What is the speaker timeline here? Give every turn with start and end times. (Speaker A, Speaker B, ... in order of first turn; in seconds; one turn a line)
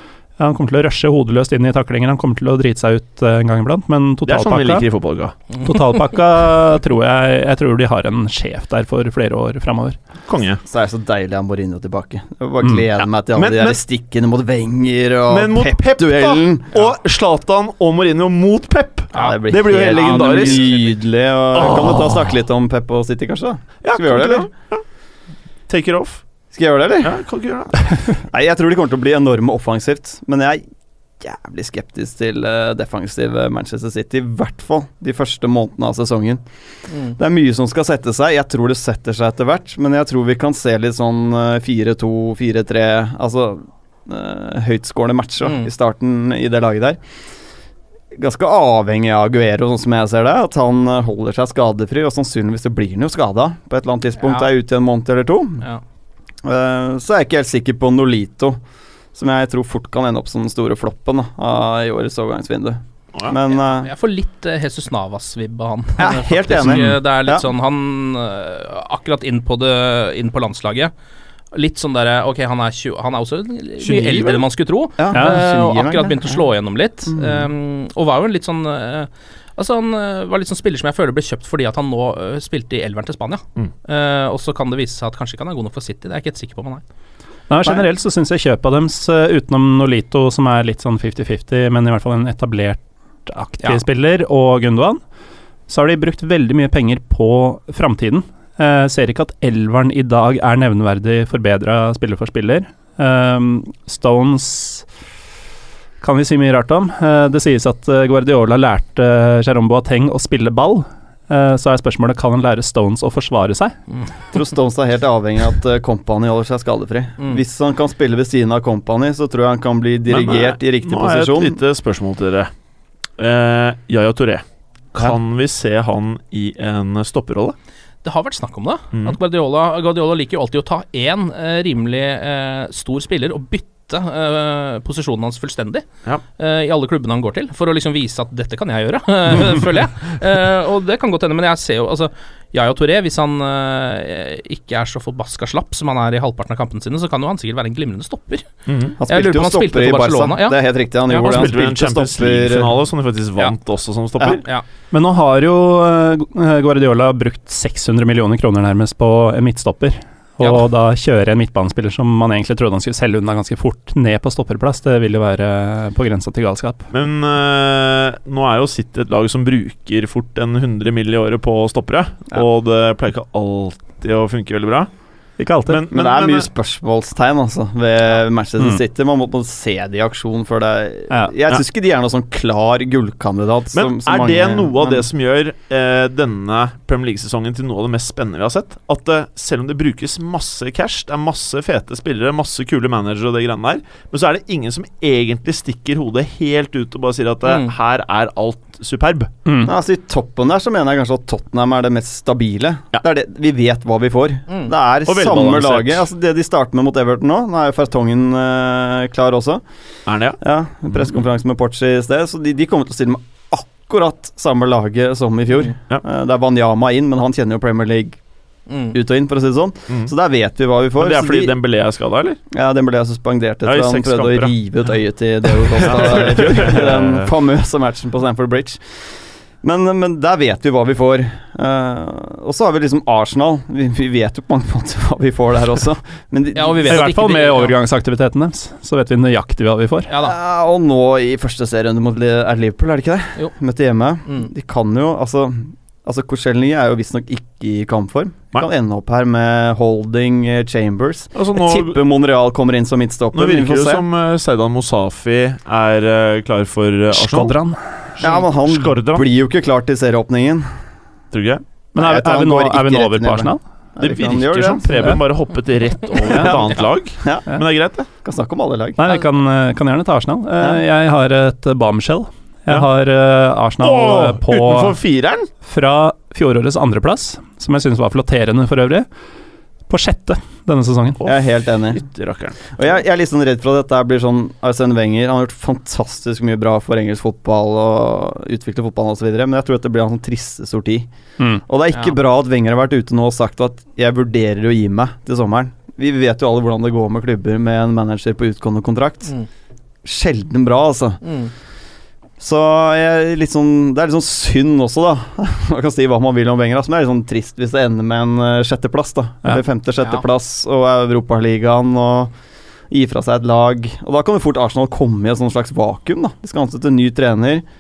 Speaker A: 0.4-4.8
Speaker B: 4.2-5.3
Speaker A: 5.6-10.0
Speaker B: 10.3-10.6
Speaker C: 10.7-16.8
Speaker B: 13.3-13.8
Speaker B: 15.3-20.8
Speaker D: 19.1-20.9
Speaker C: 19.1-24.5
Speaker B: 21.5-22.3
Speaker B: 23.8-24.8
Speaker B: 25.7-26.2
Speaker C: 26.5-27.1
Speaker B: 27.0-27.7
Speaker C: 28.0-30.6
Speaker C: 31.2-36.4
Speaker D: 36.9-37.1
Speaker C: 37.2-47.0
Speaker D: 45.4-45.7
Speaker C: 48.1-55.6
Speaker D: 54.2-54.5
Speaker C: 56.4-58.6
Speaker C: 59.1-63.9
Speaker D: 63.3-70.9
Speaker C: 66.0-67.5
Speaker A: 66.6-66.9
Speaker D: 71.5-86.8
Speaker B: 73.8-74.4
Speaker C: 75.0-76.5
Speaker A: 75.1-75.4
Speaker C: 77.1-77.5
Speaker A: 87.5-95.0
Speaker A: 95.7-104.8
Speaker A: 106.0-113.8
Speaker C: 114.3-121.6
Speaker B: 120.1-122.5
Speaker B: 123.2-127.5
Speaker D: 128.0-148.5
Speaker B: 148.7-149.0
Speaker C: 149.0-152.8
Speaker D: 149.0-150.6
Speaker D: 151.1-151.5
Speaker B: 151.2-154.4
Speaker D: 154.2-154.6
Speaker A: 154.9-166.9
Speaker B: 166.9-174.9
Speaker A: 175.4-175.8
Speaker B: 175.7-176.5
Speaker C: 175.9-185.0
Speaker B: 183.7-199.3
Speaker D: 197.4-197.7
Speaker A: 199.4-199.7
Speaker C: 199.6-209.6
Speaker B: 205.1-206.1
Speaker B: 210.1-210.4
Speaker C: 210.4-218.2
Speaker D: 218.7-219.0
Speaker C: 218.9-221.6
Speaker B: 221.0-222.4
Speaker C: 222.5-237.1
Speaker B: 223.6-224.5
Speaker B: 225.8-227.3
Speaker D: 236.5-237.7
Speaker A: 236.8-240.1
Speaker D: 240.1-240.4
Speaker C: 240.2-254.0
Speaker B: 251.3-252.0
Speaker B: 253.3-257.6
Speaker A: 257.1-257.8
Speaker B: 258.2-259.2
Speaker C: 258.2-260.7
Speaker B: 261.3-261.6
Speaker A: 261.9-263.6
Speaker C: 261.9-265.2
Speaker B: 264.0-268.1
Speaker A: 266.3-266.6
Speaker C: 266.3-267.5
Speaker C: 268.2-269.0
Speaker A: 269.0-275.0
Speaker B: 273.8-275.5
Speaker A: 275.6-279.1
Speaker A: 279.9-281.2
Speaker B: 281.2-282.6
Speaker C: 281.2-282.0
Speaker C: 282.8-291.1
Speaker C: 291.6-299.3
Speaker C: 300.0-301.2
Speaker D: 301.2-301.5
Speaker C: 302.4-312.3
Speaker C: 312.9-317.6